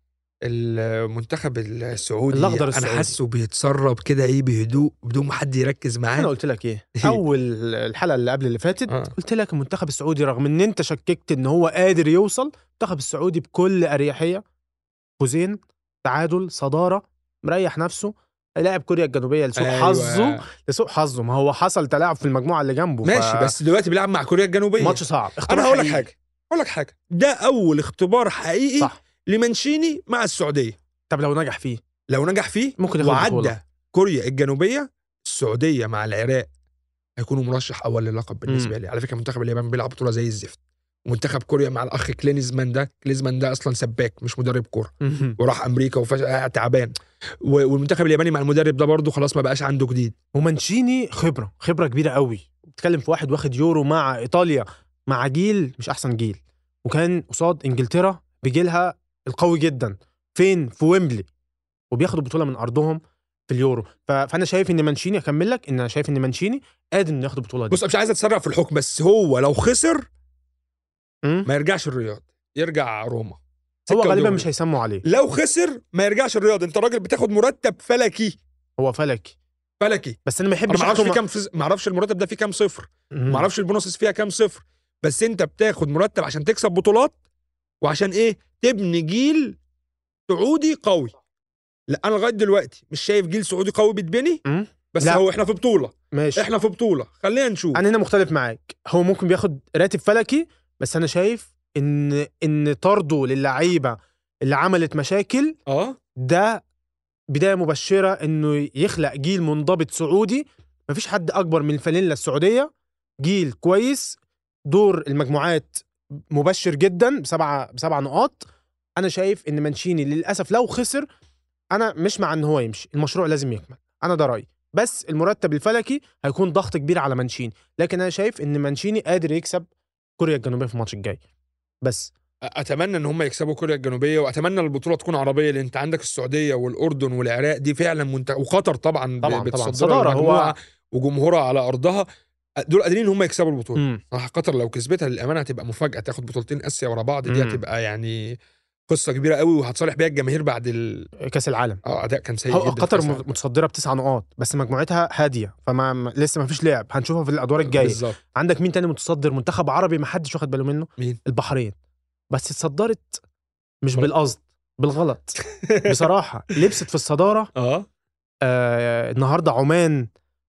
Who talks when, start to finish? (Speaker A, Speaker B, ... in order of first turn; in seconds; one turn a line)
Speaker A: 0.5-6.3
Speaker B: 2.3-3.1
Speaker B: 6.2-14.4
Speaker A: 8.9-9.1
Speaker B: 15.2-23.5
Speaker A: 19.6-20.4
Speaker A: 23.0-30.8
Speaker B: 24.8-26.1
Speaker B: 31.1-31.8
Speaker A: 32.1-36.5
Speaker B: 32.8-33.5
Speaker A: 37.2-46.9
Speaker B: 38.5-38.7
Speaker B: 45.0-45.4
Speaker A: 47.4-50.1
Speaker B: 50.3-61.3
Speaker B: 61.9-67.8
Speaker A: 67.7-70.0
Speaker A: 71.5-74.5
Speaker B: 73.9-75.0
Speaker A: 75.0-78.4
Speaker B: 78.8-79.3
Speaker A: 79.8-80.2
Speaker B: 80.2-81.2
Speaker A: 80.7-87.2
Speaker B: 83.1-83.5
Speaker A: 87.8-89.6
Speaker A: 90.3-91.2
Speaker A: 91.9-94.4
Speaker B: 94.5-95.2
Speaker A: 94.9-97.8
Speaker B: 96.1-96.5
Speaker B: 97.7-105.6
Speaker A: 105.7-106.0
Speaker B: 106.2-106.6
Speaker B: 107.3-112.7
Speaker B: 113.2-114.2
Speaker B: 114.7-118.5
Speaker B: 119.0-121.1
Speaker B: 121.7-129.7
Speaker B: 130.2-131.2
Speaker B: 131.8-132.1
Speaker A: 132.5-142.1
Speaker B: 139.2-140.5
Speaker A: 142.7-148.4
Speaker B: 143.8-144.0
Speaker B: 147.3-147.6
Speaker A: 148.9-151.1
Speaker B: 151.3-151.8
Speaker A: 151.8-153.2
Speaker B: 152.5-161.7
Speaker A: 157.6-158.2
Speaker B: 162.3-163.2
Speaker B: 163.8-167.5
Speaker A: 165.6-166.1
Speaker A: 167.6-167.8
Speaker B: 168.4-170.1